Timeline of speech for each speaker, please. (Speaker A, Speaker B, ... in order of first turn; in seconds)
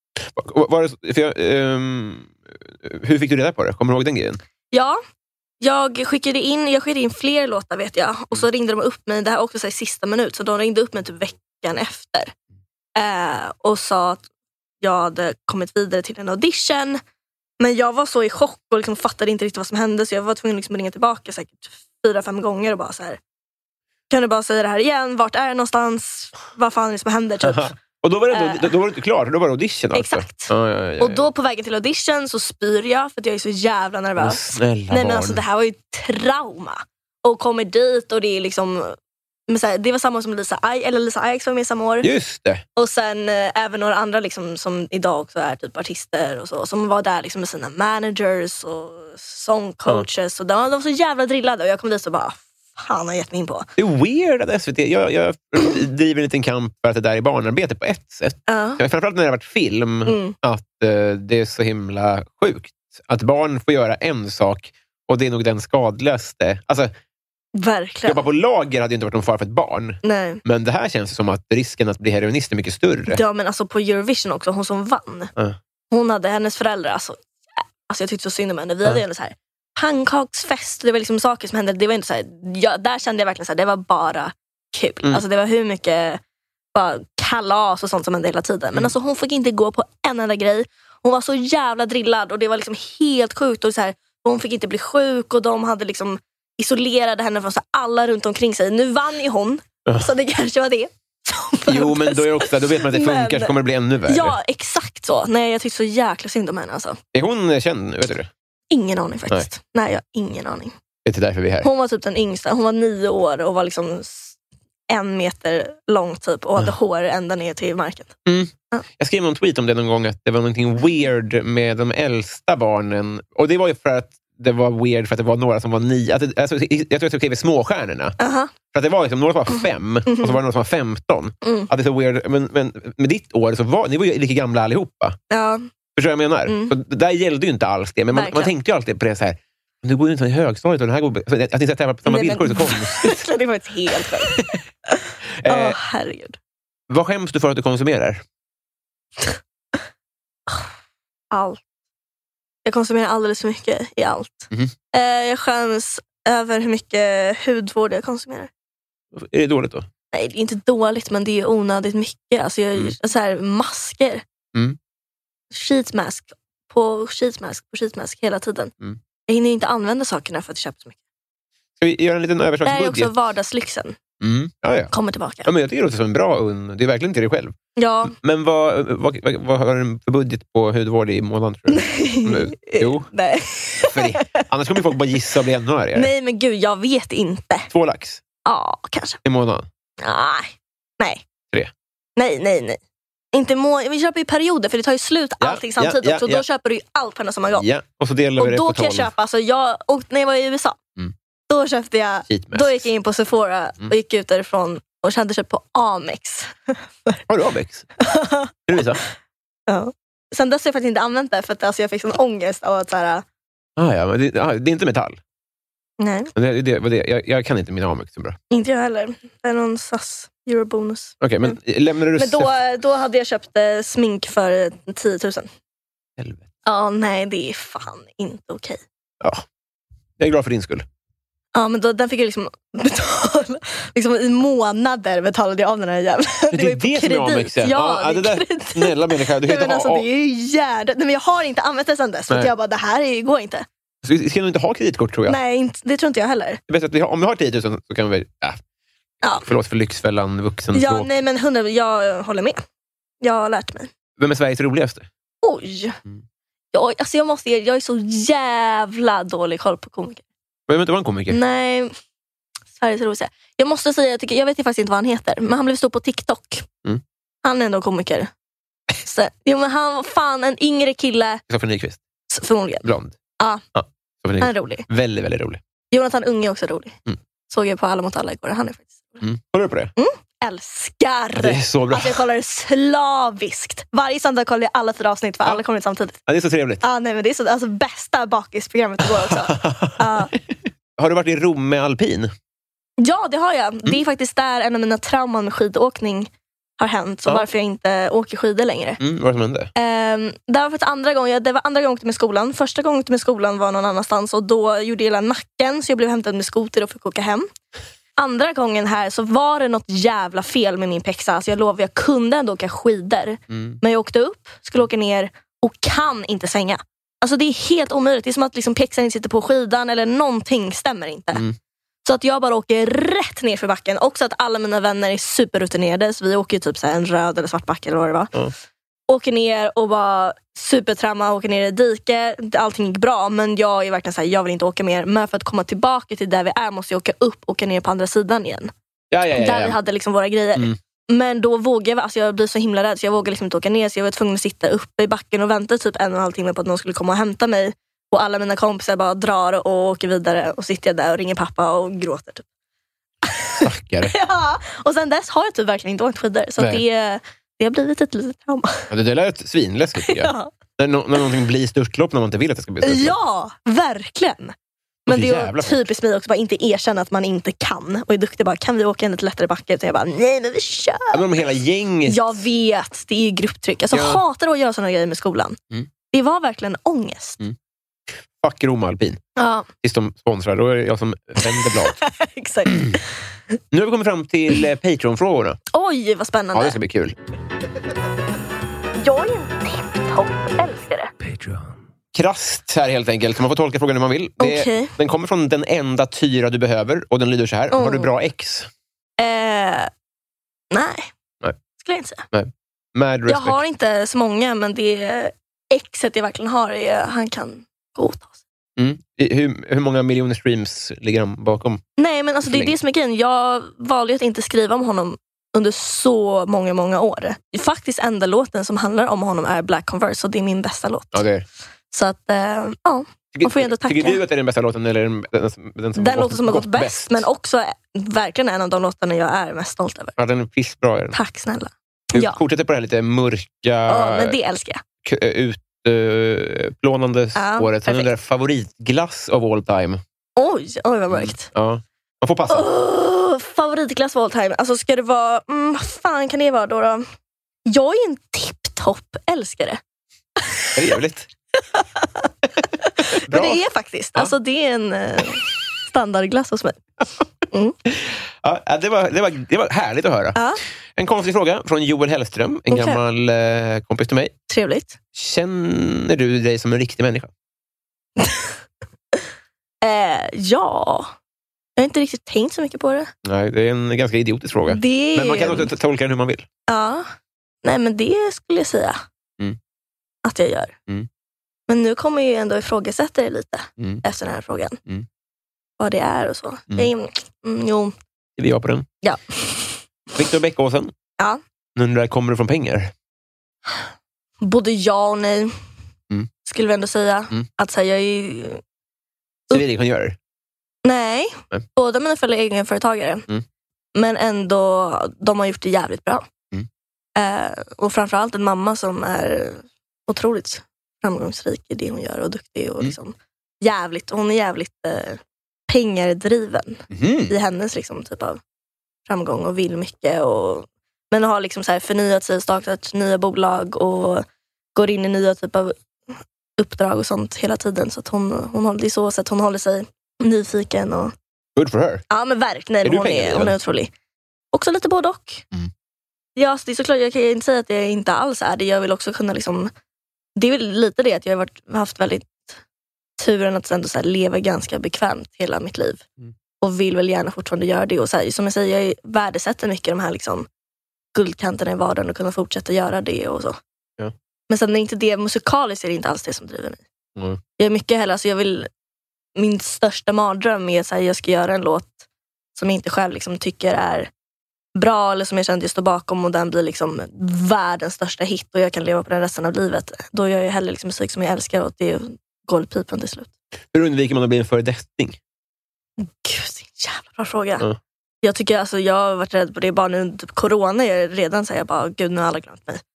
Speaker A: 0.2-4.4, 27.4-31.3, 34.2-35.4, 42.0-42.6, 53.8-66.9, 68.0-73.2, 99.9-100.1, 101.7-104.4, 107.1-108.3, 111.0-111.7, 118.2-128.2, 128.7-135.2, 135.9-143.3, 144.2-144.6, 145.4-145.8, 146.9-148.2, 159.1-159.9, 171.8-173.1, 174.2-174.9, 175.4-183.1, 183.8-186.1, 187.7-188.2, 189.2-189.7, 195.4-196.4, 197.5-199.1, 202.3-202.8, 207.3-207.9, 208.7-209.0, 213.8-215.2, 216.3-218.4, 221.2-222.5, 226.2-226.5, 230.2-230.8, 236.5-240.1, 244.0-245.4, 246.7-248.6, 249.4-251.1, 254.2-255.1, 260.7-261.4, 271.5-272.0, 272.8-273.1, 273.7-275.6, 279.2-279.9, 281.3-282.2, 286.3-286.8, 289.0-290.2, 291.0-292.3, 299.0-299.7, 313.5-313.8, 339.1-339.8, 353.6-354.1, 358.9-363.1, 365.1-365.8, 371.1-372.4, 373.9-374.2, 378.4-379.2, 379.8-382.0, 383.7-385.6, 386.5-387.1, 392.1-398.7, 402.3-403.6, 408.8-411.8, 412.4-412.7, 421.1-421.4, 423.3-427.3, 430.2-431.1, 432.1-434.3, 435.0-440.0, 441.1-442.7, 450.7-451.3, 453.1-453.6, 457.9-460.4, 460.9-464.3, 465.1-467.3, 473.2-476.5, 488.4-488.9, 490.1-490.9, 491.8-492.9, 499.5-500.1, 516.9-517.3, 531.5-532.0, 532.8-533.5, 573.7-575.2
Speaker B: 4.7-5.0, 5.6-12.3, 12.9-14.2, 14.8-17.0, 17.6-23.2, 24.1-27.7, 28.3-28.7, 29.9-39.0, 39.5-42.1, 42.8-53.7, 58.5-58.8, 60.0-60.3, 67.5-68.2, 70.0-70.4, 73.1-75.3, 75.9-77.2, 77.9-86.2, 86.7-107.0, 108.7-110.7, 111.6-114.3, 114.9-118.2, 128.2-128.5, 129.6-130.4, 131.4-131.7, 135.3-135.7, 136.5-136.7, 138.1-138.5, 142.1-146.4, 151.3-151.6, 152.6-158.5, 160.1-164.2, 165.5-168.7, 169.3-171.0, 172.6-173.9, 174.9-175.5, 177.8-178.1, 181.7-185.0, 185.9-187.7, 188.4-189.2, 190.0-191.2, 192.2-192.8, 193.3-197.7, 198.4-200.8, 201.5-207.2, 208.0-208.5, 209.7-213.2, 216.0-216.3, 218.5-221.6, 222.1-225.5, 226.6-228.8, 231.5-243.6, 245.3-246.6, 249.2-249.5, 250.7-252.6, 253.2-253.9, 255.4-256.0, 256.7-260.2, 261.3-261.9, 262.8-266.7, 267.4-268.3, 268.9-271.4, 272.3-272.9, 274.4-274.9, 275.9-276.9, 277.5-279.2, 280.0-286.2, 286.8-290.3, 293.0-299.0, 299.8-307.5, 308.2-321.4, 322.0-328.3, 329.1-338.7, 339.3-352.4, 353.2-358.9, 360.0-360.5, 362.8-364.5, 365.1-371.3, 372.1-375.6, 376.1-377.4, 379.4-379.7, 381.4-383.1, 385.7-386.8, 389.0-391.1, 394.4-394.9, 397.7-398.1, 399.2-399.9, 400.7-401.1, 401.8-402.2, 403.3-408.4, 412.0-421.2, 421.9-424.2, 425.9-430.1, 431.1-432.4, 433.9-434.8, 437.4-438.1, 440.4-441.5, 442.5-447.0, 447.7-449.8, 450.4-450.8, 451.7-452.3, 452.8-456.8, 462.7-463.0, 464.5-465.0, 468.2-468.5, 469.8-471.1, 471.8-473.1, 474.7-475.7, 476.7-477.1, 477.6-479.0, 480.2-480.7, 481.7-484.8, 485.8-487.9, 489.0-489.8, 494.4-495.5, 496.4-498.6, 500.8-503.2, 503.9-506.3, 507.1-518.4, 519.1-525.7, 526.6-531.1, 532.1-533.9, 534.5-535.5, 536.4-539.7, 540.4-542.6, 543.2-546.0, 546.6-550.5, 551.1-553.6, 554.5-556.8, 557.6-558.7, 559.4-562.0, 562.5-564.1, 564.7-573.3, 576.0-577.6, 578.2-582.8